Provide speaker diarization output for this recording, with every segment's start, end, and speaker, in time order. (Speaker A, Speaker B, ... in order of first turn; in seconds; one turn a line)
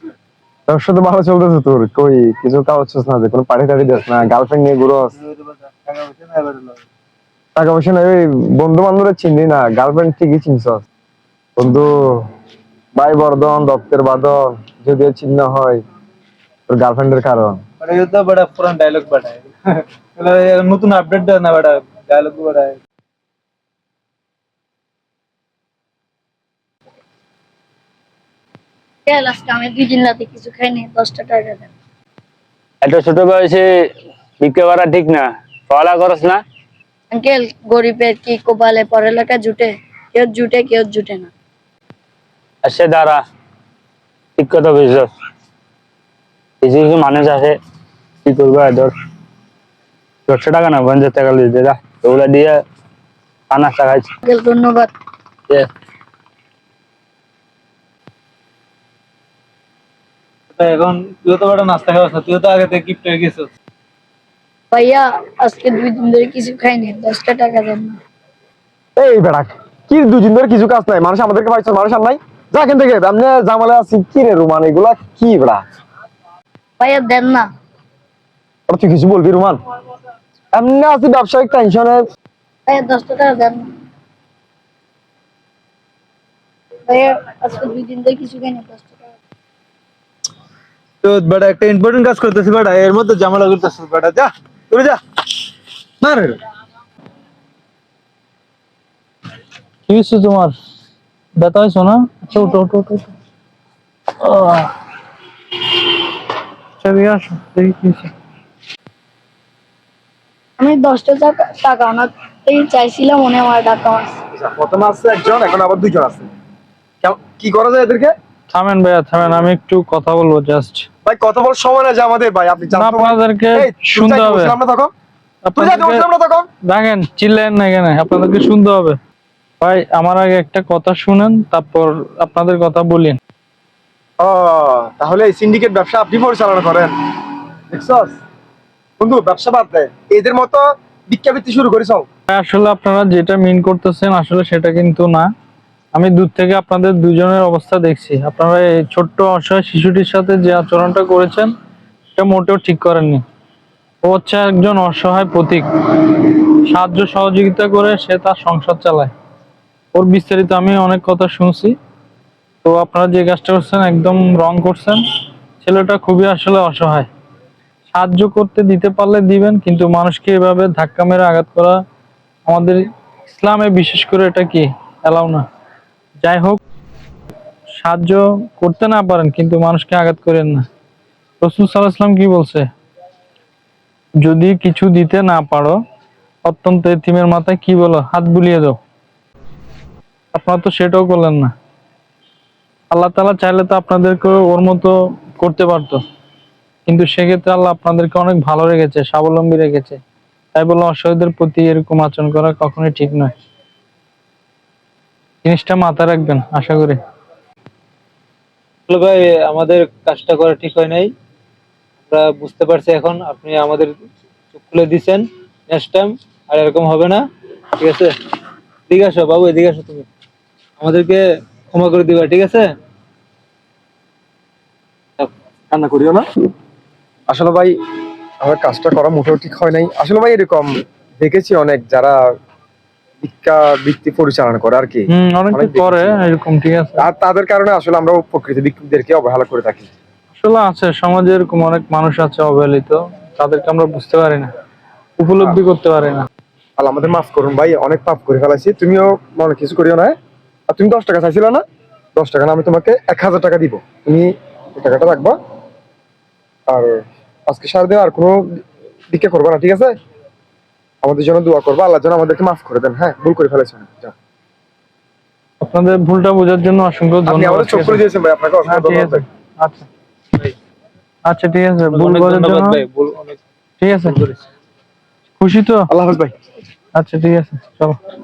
Speaker A: 0.7-5.1
Speaker B: 5.2-6.8
Speaker A: 7.6-10.8
Speaker A: 11.6-12.2
Speaker A: 12.9-15.8
Speaker A: 16.7-17.6
Speaker B: 17.8-22.8
Speaker C: 29.1-31.7
Speaker D: 32.8-33.7
Speaker D: 34.4-36.4
Speaker C: 37.1-41.3
Speaker D: 42.6-43.2
Speaker D: 44.4-45.1
Speaker D: 46.6-47.5
Speaker D: 48.2-48.9
Speaker D: 50.3-52.6
Speaker D: 53.5-54.1
Speaker C: 54.2-54.9
Speaker B: 60.5-63.5
Speaker C: 64.7-68.0
Speaker A: 69.0-75.6
Speaker C: 76.8-77.5
Speaker A: 78.7-79.6
Speaker A: 80.5-82.0
Speaker C: 82.7-83.7
Speaker C: 86.9-89.2
Speaker B: 91.0-95.0
Speaker B: 96.0-96.4
Speaker E: 99.9-100.5
Speaker E: 101.4-103.1
Speaker E: 104.2-104.7
Speaker E: 106.8-108.1
Speaker C: 110.6-114.2
Speaker A: 114.3-116.3
Speaker A: 117.0-118.2
Speaker E: 118.5-120.9
Speaker A: 121.0-124.9
Speaker E: 122.7-124.5
Speaker E: 125.5-126.0
Speaker A: 125.6-126.5
Speaker E: 126.7-129.0
Speaker E: 129.6-133.2
Speaker A: 134.2-136.9
Speaker A: 137.7-138.2
Speaker A: 139.0-142.1
Speaker E: 142.3-145.3
Speaker E: 145.9-151.5
Speaker E: 152.2-153.2
Speaker E: 154.0-159.1
Speaker E: 159.9-161.7
Speaker E: 162.6-165.0
Speaker E: 165.6-167.1
Speaker E: 167.9-171.8
Speaker E: 172.5-175.4
Speaker E: 176.2-176.6
Speaker E: 177.8-180.7
Speaker E: 181.4-182.7
Speaker E: 184.2-185.8
Speaker E: 186.5-188.8
Speaker E: 190.3-191.5
Speaker E: 192.9-196.0
Speaker E: 196.9-200.0
Speaker E: 200.5-203.3
Speaker E: 205.4-207.0
Speaker B: 208.9-211.1
Speaker B: 212.1-214.0
Speaker B: 214.5-217.2
Speaker B: 217.8-218.2
Speaker B: 218.9-220.1
Speaker B: 220.8-222.7
Speaker A: 225.7-226.3
Speaker A: 227.3-227.8
Speaker A: 228.4-232.2
Speaker A: 233.2-236.2
Speaker E: 235.1-237.1
Speaker A: 237.0-239.9
Speaker E: 240.3-244.5
Speaker E: 245.2-246.3
Speaker A: 246.8-250.2
Speaker A: 250.7-251.6
Speaker A: 252.2-255.4
Speaker A: 256.7-258.4
Speaker A: 259.1-259.9
Speaker A: 261.0-264.1
Speaker E: 265.6-268.0
Speaker A: 267.3-269.2
Speaker E: 268.7-269.9
Speaker E: 271.3-272.8
Speaker B: 271.9-273.4
Speaker E: 273.8-274.2
Speaker B: 274.0-274.4
Speaker E: 275.4-275.9
Speaker A: 275.9-276.3
Speaker E: 276.9-278.0